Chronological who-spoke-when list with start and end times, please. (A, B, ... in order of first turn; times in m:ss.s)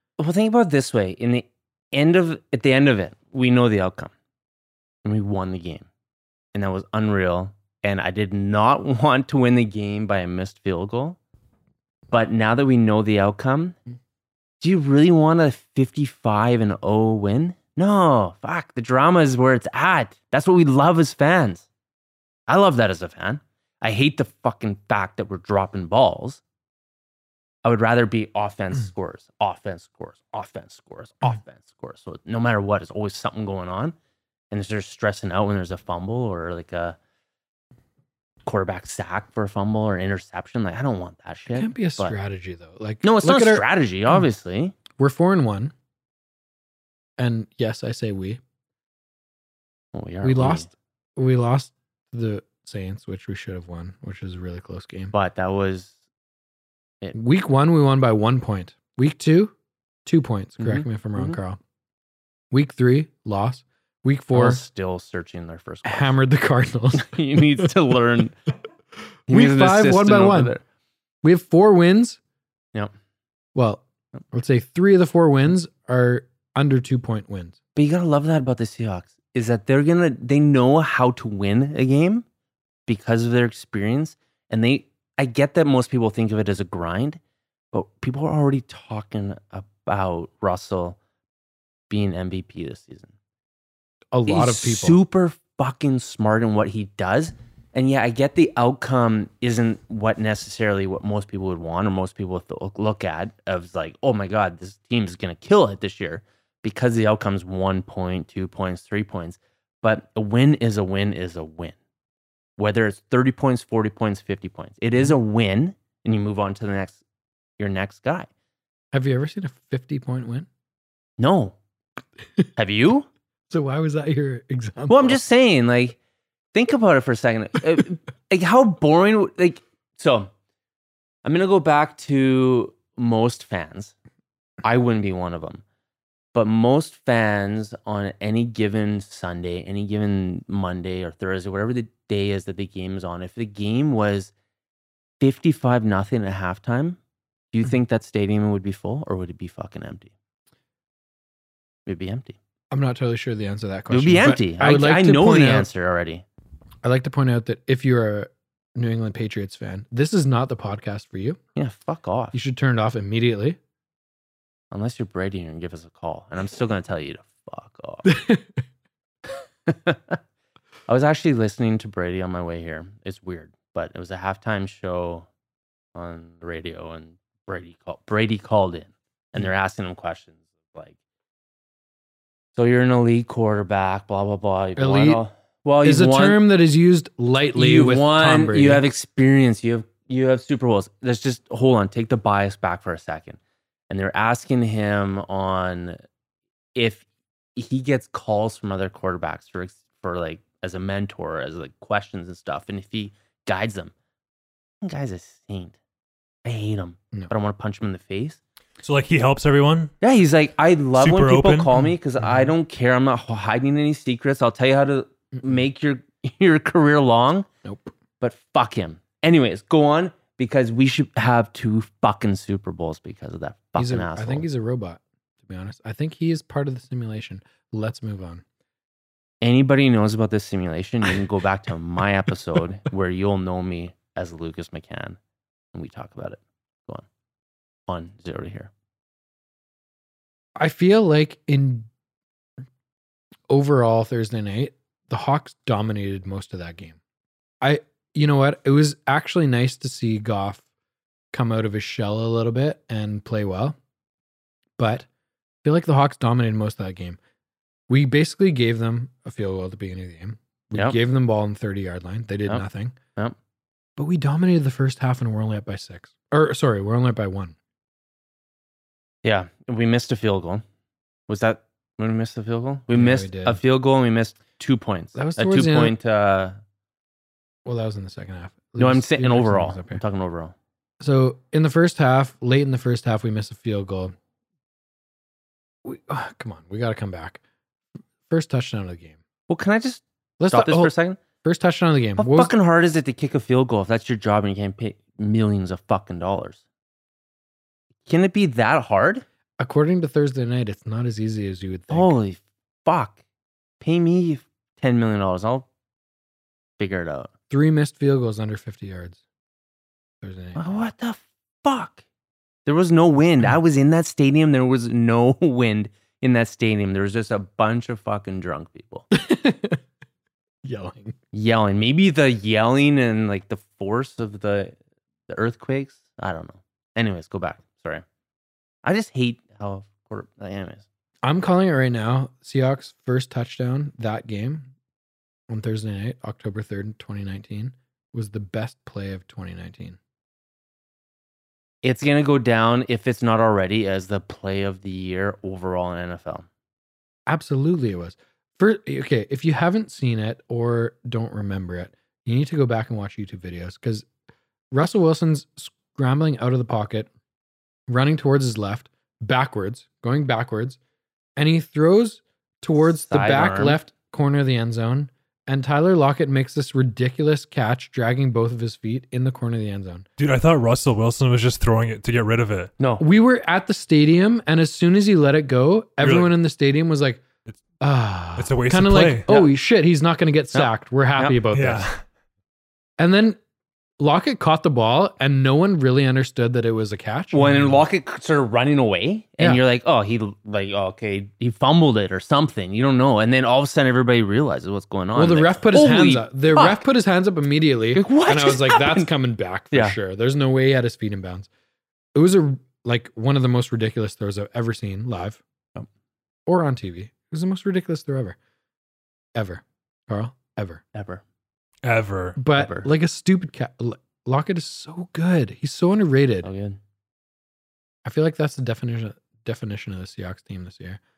0:00.2-0:04.1 A
0:05.0-0:05.9 A
0:06.5-0:11.2 A
0:12.1-0:13.8 A
0:14.6-0:21.6 A
0:22.5-0:26.4 A
0:27.6-0:34.0 A
0:34.5-0:37.0 A
0:38.4-0:42.1 A
0:41.5-0:44.2 B
0:43.0-0:44.8 A
0:44.9-0:45.7 B
0:47.2-0:48.4 B
0:49.9-0:50.7 A
0:50.2-0:55.1 B
0:55.1-0:56.0 A
0:57.1-0:59.5 B
1:00.0-1:01.6 B
1:00.6-1:01.4 A
1:02.5-1:04.6 B
1:04.3-1:06.2 A
1:05.8-1:07.7 B
1:06.9-1:08.4 A
1:09.3-1:10.6 A
1:09.3-1:10.5 B
1:11.2-1:12.2 B
1:13.5-1:17.6 B
1:17.8-1:22.2 A
1:22.9-1:27.2 A
1:27.7-1:31.0 A
1:31.9-1:33.1 A
1:34.1-1:35.0 B
1:34.3-1:51.8 A
1:52.6-1:57.0 A
1:57.6-1:58.3 A
1:58.9-2:00.5 B
2:01.2-2:01.6 A
2:02.6-2:03.1 A
2:03.5-2:05.2 B
2:04.9-2:06.0 A
2:06.5-2:10.3 A
2:11.2-2:13.9 A
2:14.6-2:15.6 A
2:16.3-2:24.3 A
2:25.2-2:27.0 A
2:27.5-2:30.1 A
2:31.8-2:32.4 A
2:32.7-2:35.7 B
2:33.9-2:36.2 A
2:36.8-2:41.4 B
2:41.6-2:42.4 A
2:42.3-2:43.6 B
2:44.7-2:48.1 A
2:48.0-2:48.4 B
2:49.7-2:50.2 A
2:50.9-2:55.3 A
2:55.9-3:00.9 A
3:02.6-3:06.4 A
3:04.8-3:05.2 B
3:05.8-3:08.8 B
3:07.5-3:13.4 A
3:13.9-3:16.0 A
3:16.7-3:17.0 A
3:17.6-3:23.9 A
3:24.8-3:25.8 A
3:26.4-3:28.4 A
3:28.8-3:29.9 C
3:30.0-3:37.5 A
3:31.0-3:31.7 C
3:32.2-3:32.5 B
3:37.6-3:37.9 B
3:38.2-3:44.4 A
3:43.8-3:48.4 B
3:49.4-3:55.2 A
3:55.7-3:57.0 A
3:57.9-3:58.7 A
4:00.6-4:01.9 B
4:03.5-4:07.0 B
4:07.6-4:10.6 B
4:11.3-4:13.8 B
4:14.8-4:15.1 B
4:15.6-4:17.2 B
4:17.9-4:22.9 B
4:24.0-4:27.5 B
4:29.2-4:30.6 A
4:31.3-4:36.6 A
4:32.9-4:33.6 B
4:35.1-4:35.9 B
4:37.6-4:40.0 B
4:38.8-4:40.5 A
4:41.0-4:44.1 B
4:45.8-4:47.4 B
4:48.3-4:49.2 B
4:49.5-4:51.2 A
4:50.4-4:52.5 B
4:52.2-4:56.6 A
4:58.1-4:59.2 A
4:59.6-5:02.1 B
5:01.9-5:03.2 A
5:03.8-5:05.6 A
5:06.8-5:07.3 A
5:07.5-5:09.2 B
5:10.2-5:10.8 B
5:10.6-5:12.0 A
5:12.6-5:19.1 A
5:19.1-5:19.8 B
5:20.6-5:21.2 B
5:21.3-5:24.8 A
5:25.3-5:28.0 A
5:28.8-5:30.8 A
5:31.2-5:34.7 B
5:35.5-5:40.0 B
5:41.8-5:46.5 A
5:47.3-5:54.1 B
5:54.7-5:57.1 B
5:57.9-6:00.8 B
6:01.4-6:10.0 B
6:02.8-6:03.8 A
6:10.2-6:12.7 C
6:12.8-6:13.0 A
6:13.0-6:17.2 B
6:16.0-6:16.3 C
6:17.8-6:21.8 B
6:18.4-6:19.2 C
6:20.5-6:21.4 A
6:21.5-6:22.0 C
6:23.0-6:23.4 B
6:24.0-6:27.8 B
6:27.3-6:36.8 A
6:35.1-6:41.5 B
6:37.9-6:39.1 A
6:42.1-6:45.4 B
6:46.5-6:48.4 B
6:49.4-6:50.8 B
6:50.9-6:51.2 A
6:51.8-6:52.4 C
6:52.4-6:56.5 B
6:52.5-6:52.9 A
6:56.4-6:56.8 A
6:58.0-7:01.0 B